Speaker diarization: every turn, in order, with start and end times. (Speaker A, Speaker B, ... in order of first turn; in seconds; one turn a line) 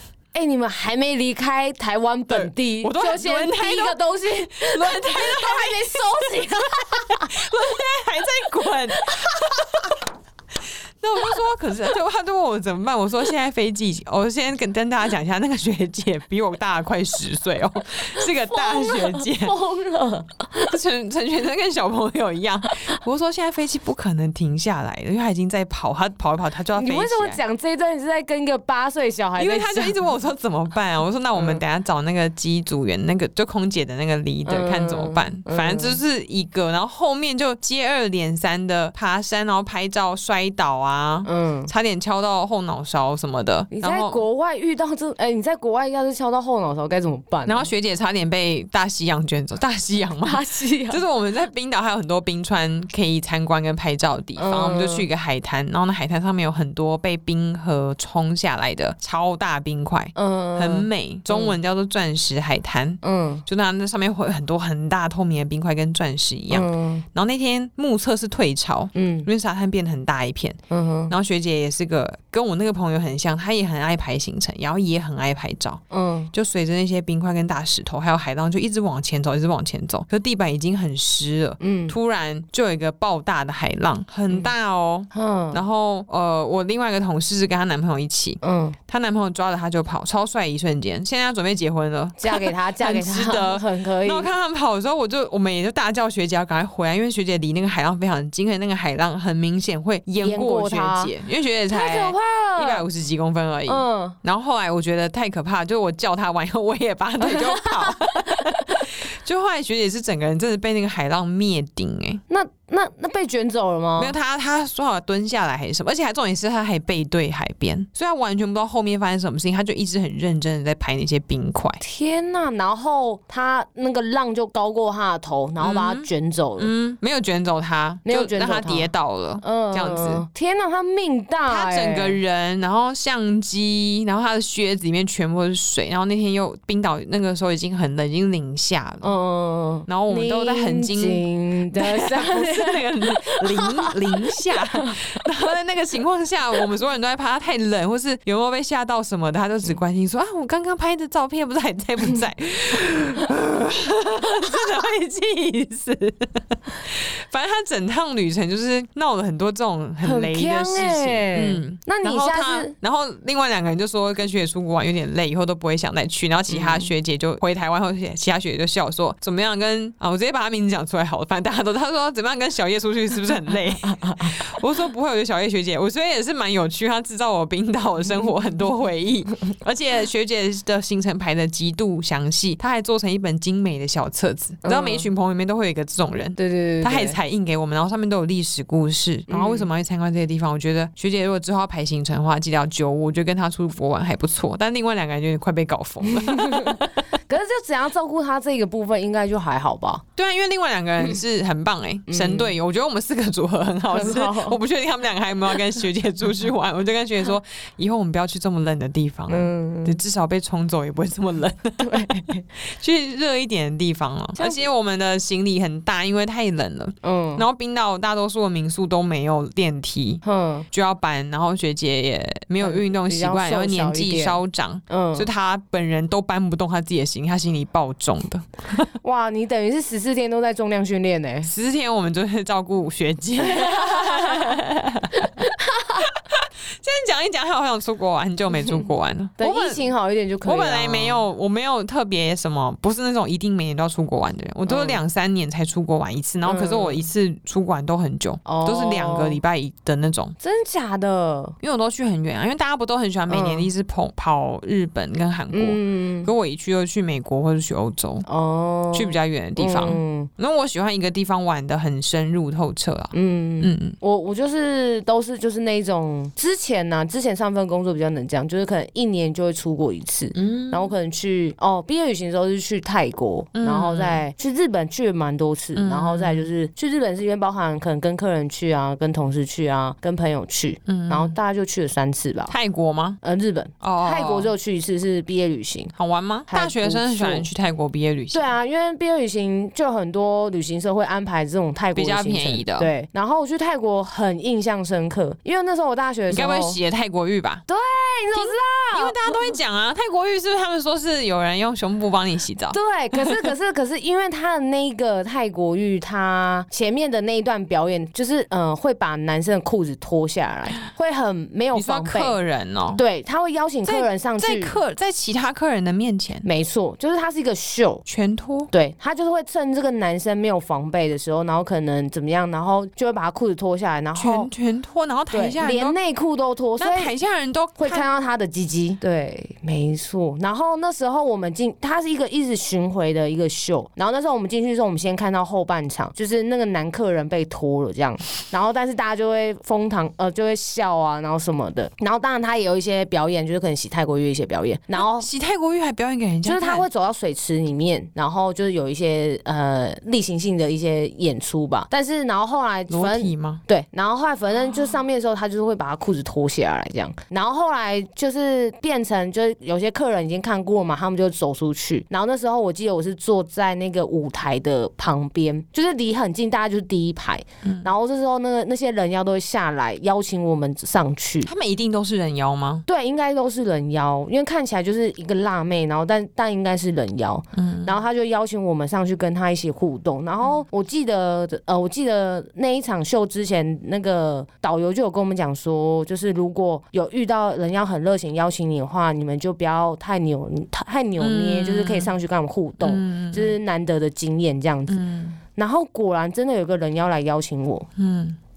Speaker A: 0.3-7.3
Speaker B: 2.3-4.0
Speaker B: 4.6-9.6
Speaker A: 9.0-9.5
Speaker B: 11.0-19.6
Speaker A: 18.2-20.8
Speaker B: 20.7-27.4
Speaker A: 26.8-30.0
Speaker B: 29.4-44.2
Speaker A: 31.4-31.6
Speaker A: 34.5-36.0
Speaker A: 41.2-41.7
Speaker A: 43.7-47.7
Speaker B: 47.5-75.8
Speaker A: 50.2-51.0
Speaker A: 54.4-55.1
Speaker A: 60.1-61.6
Speaker A: 63.0-63.4
Speaker A: 66.5-67.1
Speaker A: 69.0-69.3
Speaker A: 70.7-71.1
Speaker A: 75.9-76.3
Speaker B: 76.3-112.2
Speaker A: 81.6-82.0
Speaker A: 85.1-85.6
Speaker A: 88.4-88.8
Speaker A: 92.2-94.3
Speaker A: 100.2-101.1
Speaker A: 101.7-102.8
Speaker A: 103.7-104.2
Speaker A: 107.2-108.8
Speaker A: 112.3-114.1
Speaker B: 114.0-121.8
Speaker A: 121.8-126.7
Speaker B: 125.6-130.3
Speaker A: 128.1-132.2
Speaker B: 131.5-139.1
Speaker A: 139.0-145.0
Speaker B: 139.9-196.9
Speaker A: 160.0-162.7
Speaker A: 166.5-166.9
Speaker A: 174.0-174.3
Speaker A: 184.6-185.1
Speaker A: 186.4-187.2
Speaker A: 189.3-189.7
Speaker A: 196.0-200.0
Speaker B: 200.2-228.8
Speaker A: 202.1-202.6
Speaker A: 203.9-204.6
Speaker A: 209.3-210.0
Speaker A: 211.8-212.4
Speaker A: 214.4-214.7
Speaker A: 217.0-217.4
Speaker A: 220.2-220.7
Speaker A: 222.6-225.3
Speaker A: 229.0-231.5
Speaker B: 231.4-235.3
Speaker A: 233.4-234.6
Speaker A: 235.1-236.1
Speaker B: 236.0-239.9
Speaker A: 239.4-241.2
Speaker B: 240.4-250.4
Speaker A: 244.7-245.0
Speaker A: 246.4-247.1
Speaker A: 248.4-249.4
Speaker A: 250.4-251.6
Speaker B: 251.6-258.2
Speaker A: 253.3-253.7
Speaker A: 255.5-256.3
Speaker A: 258.3-260.3
Speaker B: 258.9-264.0
Speaker A: 263.1-282.5
Speaker B: 270.3-270.9
Speaker B: 273.6-274.2
Speaker B: 275.8-276.5
Speaker B: 280.9-281.4
Speaker B: 282.5-283.2
Speaker A: 283.2-285.9
Speaker B: 283.8-284.5
Speaker B: 286.0-288.5
Speaker A: 286.5-287.5
Speaker A: 288.3-296.8
Speaker B: 292.0-292.9
Speaker B: 296.3-297.6
Speaker A: 297.7-299.5
Speaker B: 298.4-303.5
Speaker A: 302.7-312.4
Speaker B: 311.7-313.0
Speaker A: 312.9-314.8
Speaker B: 313.8-316.5
Speaker A: 316.4-318.1
Speaker B: 318.1-318.7
Speaker A: 318.7-324.5
Speaker B: 324.2-326.0
Speaker A: 325.3-327.1
Speaker B: 326.8-328.1
Speaker A: 327.8-345.3
Speaker B: 344.9-346.9
Speaker A: 346.4-371.5
Speaker B: 352.9-353.6
Speaker B: 367.6-367.9
Speaker B: 371.4-372.9
Speaker A: 372.9-395.0
Speaker B: 377.6-377.9
Speaker B: 391.2-392.1
Speaker B: 392.8-393.6
Speaker B: 394.9-395.4
Speaker A: 395.6-397.9
Speaker B: 398.0-398.4